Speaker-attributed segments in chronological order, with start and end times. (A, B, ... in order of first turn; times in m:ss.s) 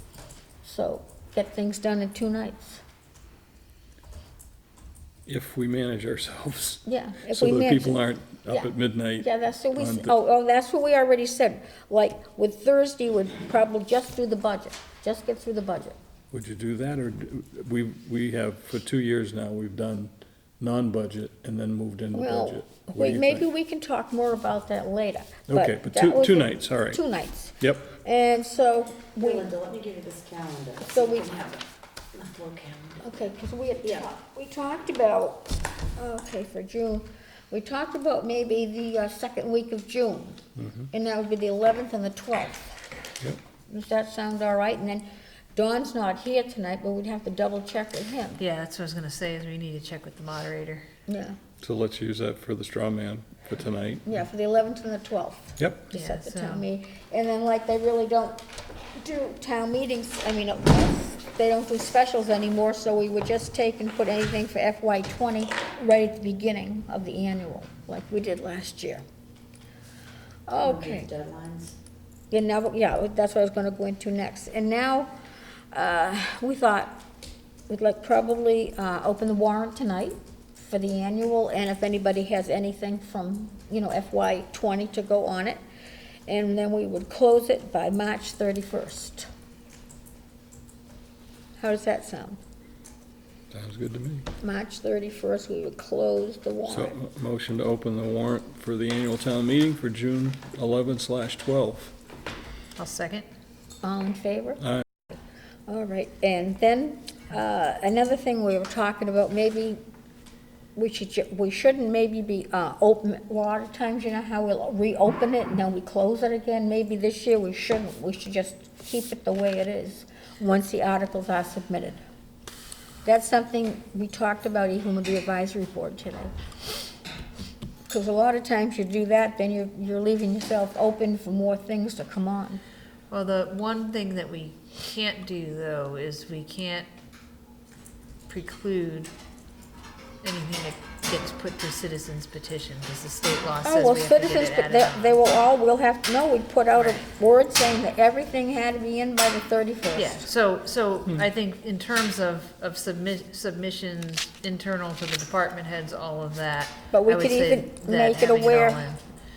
0:00.6-0:02.8 A
0:05.3-0:10.1 B
0:06.9-0:16.0 A
0:16.3-0:23.5 B
0:22.1-0:29.6 A
0:25.5-0:27.0 B
0:27.6-0:27.9 B
0:29.2-0:33.0 C
0:30.9-0:31.4 A
0:33.0-0:42.8 A
0:40.6-0:40.9 B
0:43.7-0:48.4 A
0:48.4-0:50.9 D
0:51.1-0:51.4 A
0:51.6-0:54.2 B
0:54.0-0:58.4 A
0:55.6-0:55.9 B
0:55.9-0:56.7 D
0:59.0-1:09.0 A
1:10.5-1:11.1 A
1:10.6-1:11.8 C
1:12.3-1:15.1 A
1:15.7-1:17.0 A
1:17.7-1:25.6 A
1:26.3-1:29.3 A
1:31.6-1:32.4 A
1:33.5-1:34.3 B
1:34.4-1:37.0 A
1:36.7-1:41.9 B
1:42.8-1:43.3 D
1:43.8-1:44.6 A
1:45.7-1:49.8 A
1:50.8-2:02.0 A
2:03.0-2:06.3 A
2:07.9-2:12.6 A
2:13.1-2:16.9 D
2:18.3-2:19.1 D
2:20.2-2:25.2 D
2:23.6-2:30.3 A
2:26.8-2:27.0 D
2:30.0-2:39.0 D
2:36.9-2:38.9 A